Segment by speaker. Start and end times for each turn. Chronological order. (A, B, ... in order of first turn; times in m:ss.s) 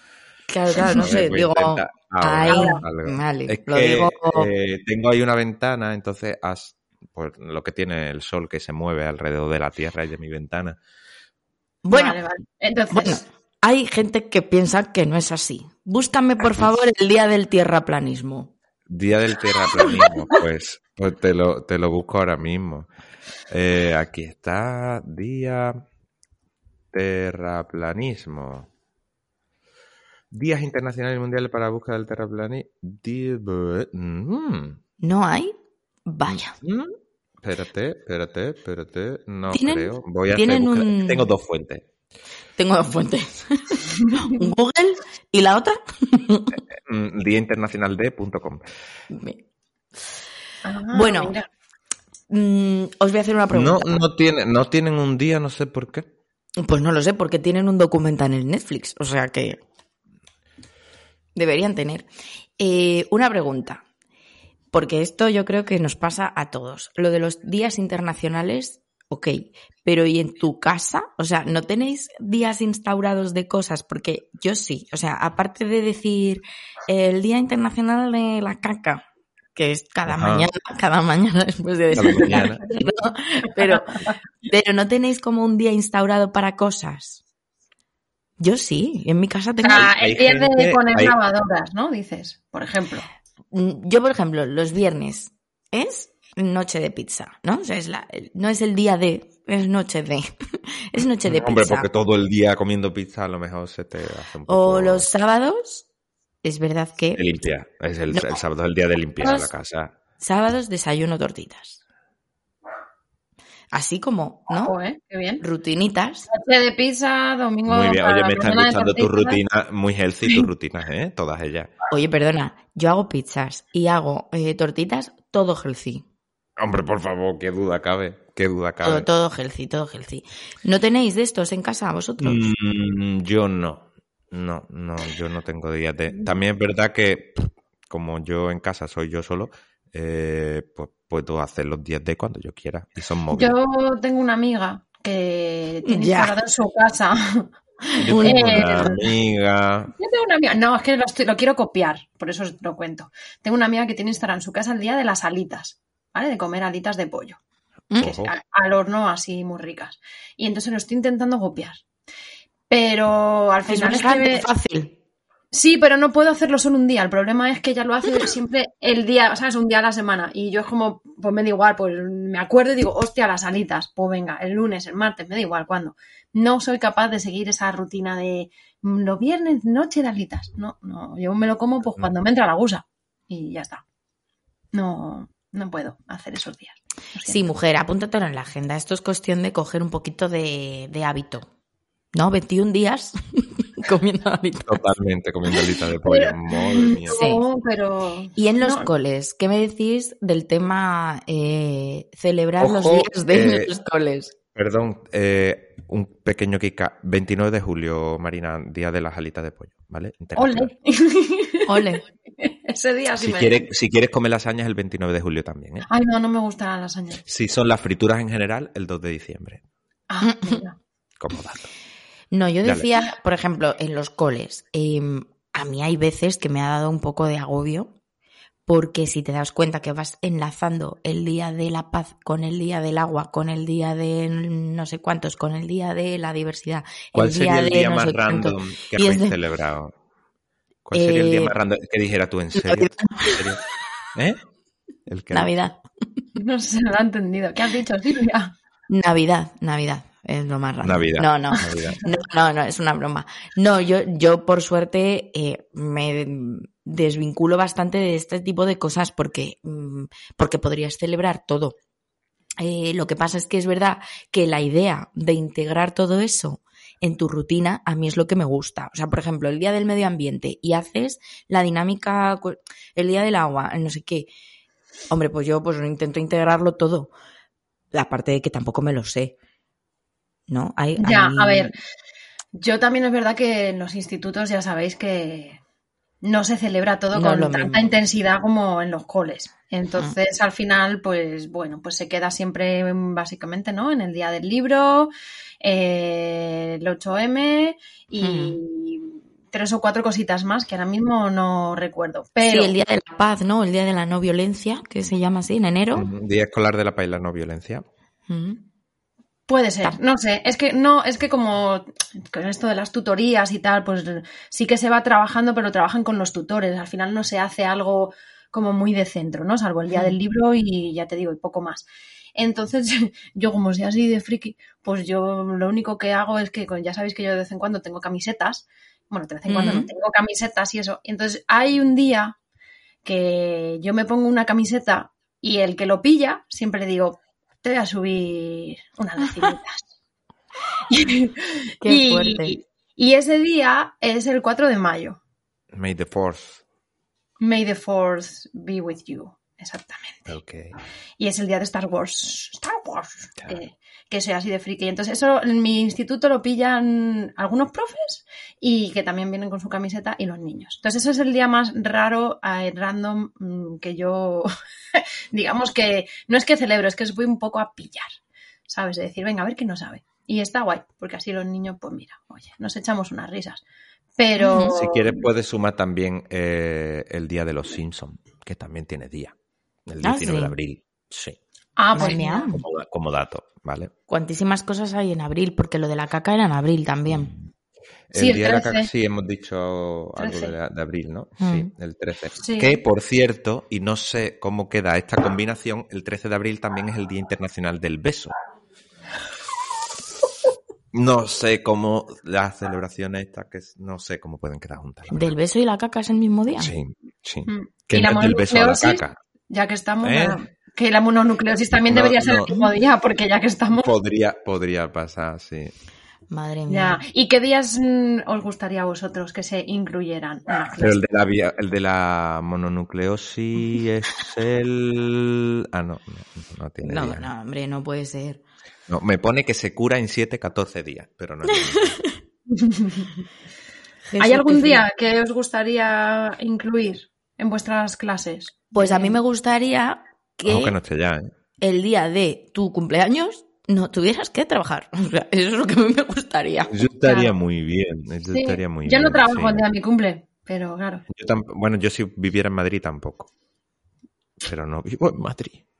0:00.5-0:04.5 A
0:00.7-0:10.8 B
0:02.5-0:02.8 C
0:11.8-0:12.2 A
0:11.9-0:13.2 C
0:12.9-0:18.5 A
0:18.9-0:22.9 B
0:23.5-0:25.8 B
0:26.9-0:28.7 B
0:30.3-0:34.8 B
0:35.0-0:35.5 A
0:36.0-0:36.5 A
0:36.2-0:41.8 B
0:39.5-0:41.3 A
0:42.6-0:46.6 A
0:46.8-0:48.6 B
0:49.1-0:49.4 A
0:50.6-0:51.4 C
0:50.9-0:51.3 A
0:52.3-0:54.0 A
0:53.5-0:56.0 B
0:56.6-0:59.6 A
1:01.3-1:02.1 A
1:02.6-1:03.8 A
1:04.7-1:19.0 A
1:19.5-1:27.2 A
1:20.1-1:20.5 B
1:21.9-1:22.6 B
1:28.4-1:29.9 A
1:29.6-1:33.1 C
1:29.7-1:31.2 B
1:33.5-1:41.9 A
1:41.2-1:45.1 B
1:44.5-1:45.8 A
1:46.4-1:47.2 A
1:47.2-1:49.9 B
1:48.1-1:48.4 A
1:50.2-1:51.8 A
1:53.7-1:54.7 A
1:54.6-1:55.4 C
1:55.4-1:56.3 A
1:56.3-1:59.4 C
1:57.7-2:01.7 B
2:01.9-2:06.0 A
2:06.6-2:09.1 B
2:08.8-2:12.5 A
2:12.2-2:23.6 B
2:23.3-2:27.5 C
2:25.8-2:26.3 A
2:27.9-2:28.9 A
2:28.0-2:29.9 B
2:28.2-2:29.1 C
2:30.0-2:37.4 C
2:38.0-2:38.3 B
2:38.0-2:41.8 C
2:42.7-2:44.4 C
2:43.7-2:44.9 A
2:45.5-3:03.8 C
3:04.7-3:07.4 C
3:07.2-3:11.5 A
3:12.1-3:14.8 A
3:14.7-3:17.2 B
3:16.0-3:18.9 C
3:17.1-3:17.4 A
3:18.4-3:24.3 A
3:22.6-3:23.7 B
3:24.5-3:30.7 B
3:30.4-3:31.9 C
3:31.6-3:32.0 A
3:32.4-3:33.7 C
3:33.2-3:35.9 B
3:35.9-3:37.2 C
3:37.3-3:39.6 B
3:40.1-3:40.8 C
3:40.2-3:40.6 A
3:41.2-3:41.7 B
3:42.3-3:47.9 A
3:48.7-3:59.4 A
3:57.1-3:59.9 B
4:00.8-4:03.6 B
4:00.9-4:01.5 A
4:02.6-4:03.4 A
4:05.1-4:05.5 B
4:05.3-4:05.8 A
4:06.4-4:08.5 C
4:08.9-4:21.8 A
4:10.8-4:12.0 B
4:22.6-4:34.3 A
4:35.1-4:37.1 A
4:37.9-4:39.3 A
4:40.5-4:41.7 A
4:41.0-4:41.7 C
4:42.5-4:45.6 C
4:46.2-4:55.1 C
4:47.1-4:47.9 A
4:55.6-5:02.7 C
4:58.2-4:58.6 A
5:02.4-5:06.1 A
5:05.9-5:07.8 B
5:08.3-5:08.6 A
5:09.5-5:32.3 C
5:29.5-5:29.9 A
5:33.0-5:39.8 C
5:40.9-5:45.2 C
5:41.8-5:42.5 A
5:45.7-5:46.6 B
5:47.4-5:50.2 C
5:50.3-5:50.8 B
5:51.2-6:08.1 C
6:08.7-6:13.6 C
6:14.2-6:15.2 C
6:14.4-6:14.7 A
6:14.7-6:19.3 B
6:19.9-6:21.4 B
6:20.0-6:20.5 A
6:21.8-6:22.5 C
6:21.9-6:22.6 A
6:22.5-6:23.9 B
6:24.1-6:27.3 A
6:28.1-6:38.3 B
6:28.1-6:28.9 C
6:30.2-6:30.5 C
6:31.4-6:31.7 A
6:32.4-6:32.8 C
6:40.9-6:45.3 B
6:45.1-6:46.7 A
6:46.6-6:49.2 B
6:47.5-6:53.9 C
6:50.0-6:50.4 B
6:51.8-6:52.5 B
6:53.8-6:55.7 B
6:56.3-6:57.0 A
6:56.7-7:01.0 C
7:00.8-7:07.3 B
7:06.8-7:08.4 A
7:08.9-7:12.0 B
7:11.8-7:12.1 A
7:12.5-7:13.1 C
7:14.1-7:14.8 A
7:14.2-7:19.2 C
7:18.7-7:20.8 A
7:20.4-7:21.3 B
7:21.6-7:26.7 A
7:26.7-7:29.6 B
7:27.0-7:27.3 C
7:28.3-7:31.0 C
7:31.1-7:33.3 B
7:34.4-7:35.6 B